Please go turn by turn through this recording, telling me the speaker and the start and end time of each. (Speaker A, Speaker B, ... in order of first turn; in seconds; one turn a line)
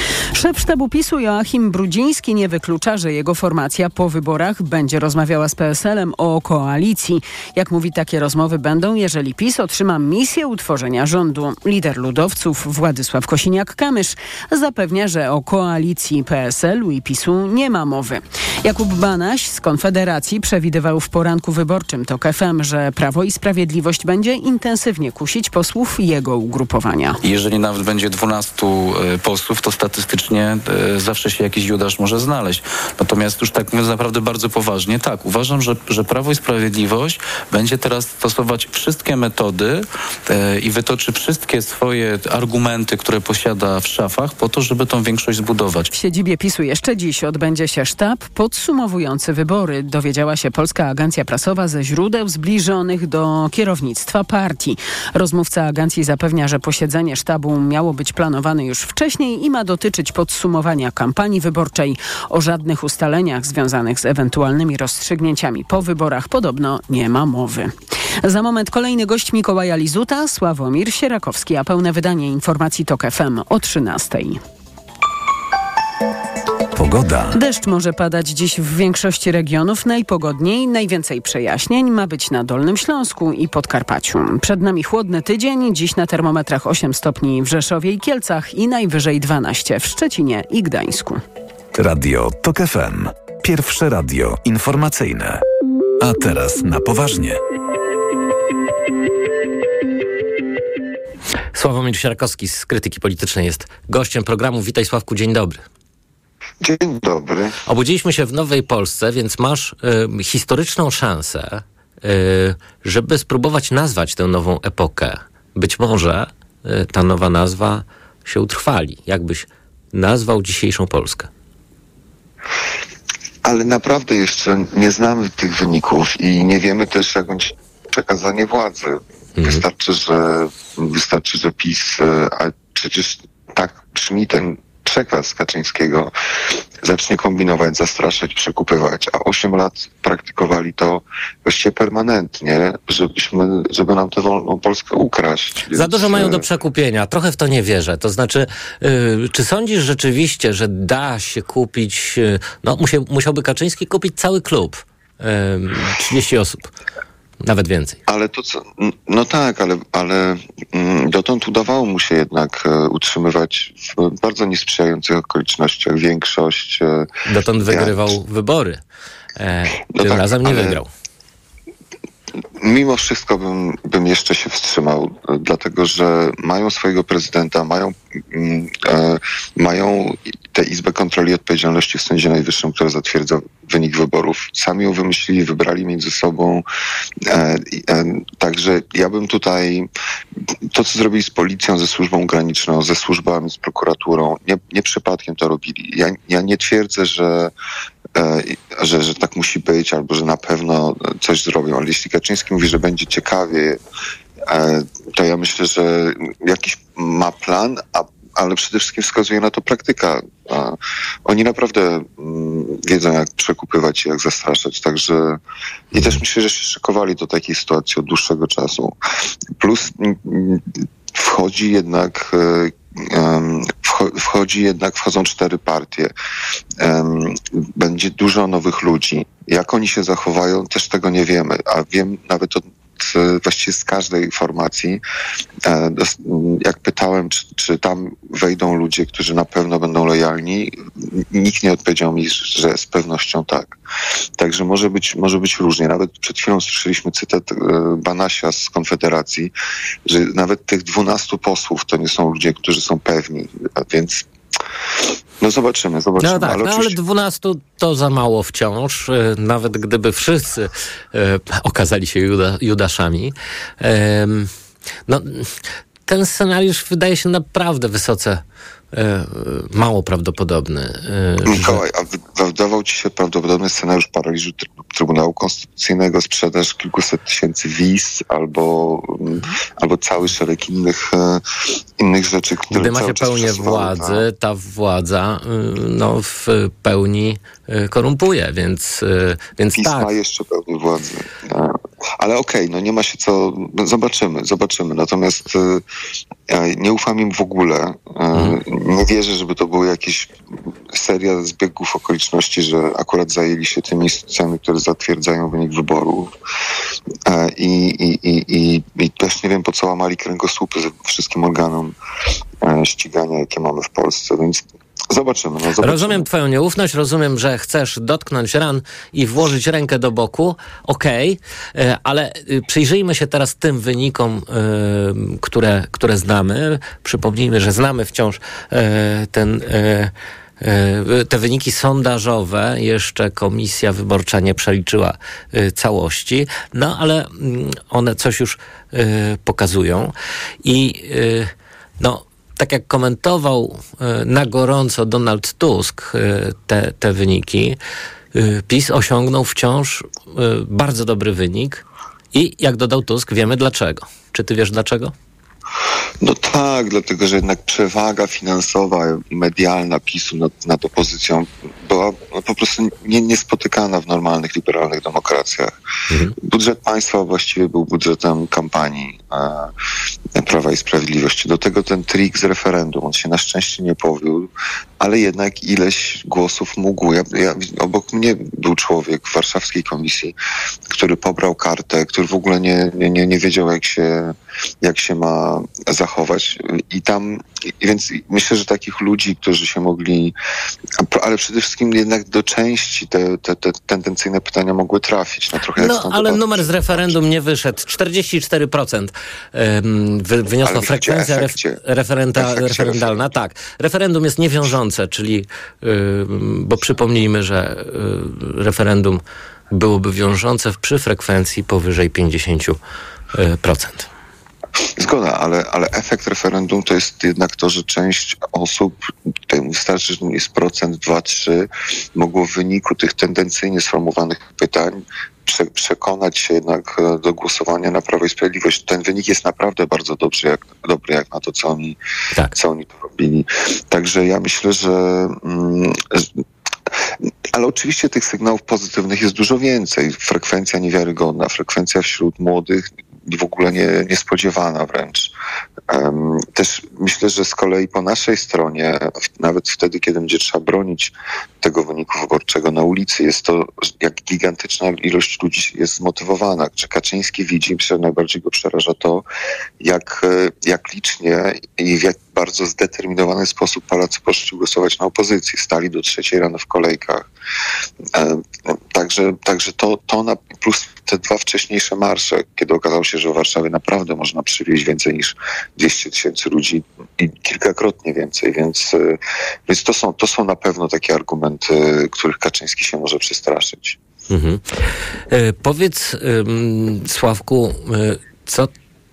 Speaker A: 0.3-27.2
Speaker B: 27.2-45.9
Speaker A: 45.9-74.4
Speaker C: 76.8-77.4
Speaker A: 77.3-91.2
Speaker C: 91.8-95.4
Speaker C: 96.0-97.4
Speaker D: 101.5-105.6
Speaker E: 106.6-107.6
Speaker D: 107.7-121.3
Speaker E: 123.4-136.1
Speaker D: 129.4-129.6
Speaker E: 136.8-146.4
Speaker D: 145.7-156.7
Speaker D: 157.4-158.0
Speaker E: 158.1-167.1
Speaker D: 167.3-168.8
Speaker E: 167.7-168.1
Speaker D: 169.4-170.9
Speaker E: 169.9-170.8
Speaker E: 172.6-186.7
Speaker E: 187.2-189.9
Speaker E: 190.7-197.5
Speaker E: 198.2-203.8
Speaker E: 204.4-215.4
Speaker E: 215.9-218.9
Speaker D: 215.9-216.2
Speaker E: 219.6-226.1
Speaker E: 226.8-235.0
Speaker E: 235.7-243.8
Speaker E: 244.4-249.5
Speaker E: 250.1-254.3
Speaker E: 255.4-257.0
Speaker D: 256.2-264.5
Speaker D: 265.1-271.8
Speaker E: 271.5-281.4
Speaker E: 282.0-284.2
Speaker D: 282.7-290.1
Speaker E: 289.7-295.8
Speaker E: 296.5-300.3
Speaker E: 300.9-306.3
Speaker E: 307.3-311.9
Speaker E: 312.6-316.3
Speaker D: 315.8-347.8
Speaker D: 348.3-355.1
Speaker E: 356.2-365.8
Speaker D: 366.1-366.4
Speaker E: 366.4-369.7
Speaker E: 370.4-380.4
Speaker E: 380.9-390.4
Speaker E: 391.0-397.1
Speaker D: 395.8-412.8
Speaker E: 400.6-401.8
Speaker E: 402.4-403.2
Speaker D: 413.3-414.1
Speaker E: 415.0-432.0
Speaker E: 432.5-436.4
Speaker E: 437.5-445.3
Speaker E: 445.9-459.2
Speaker E: 459.8-467.3
Speaker E: 468.1-484.0
Speaker D: 484.3-488.7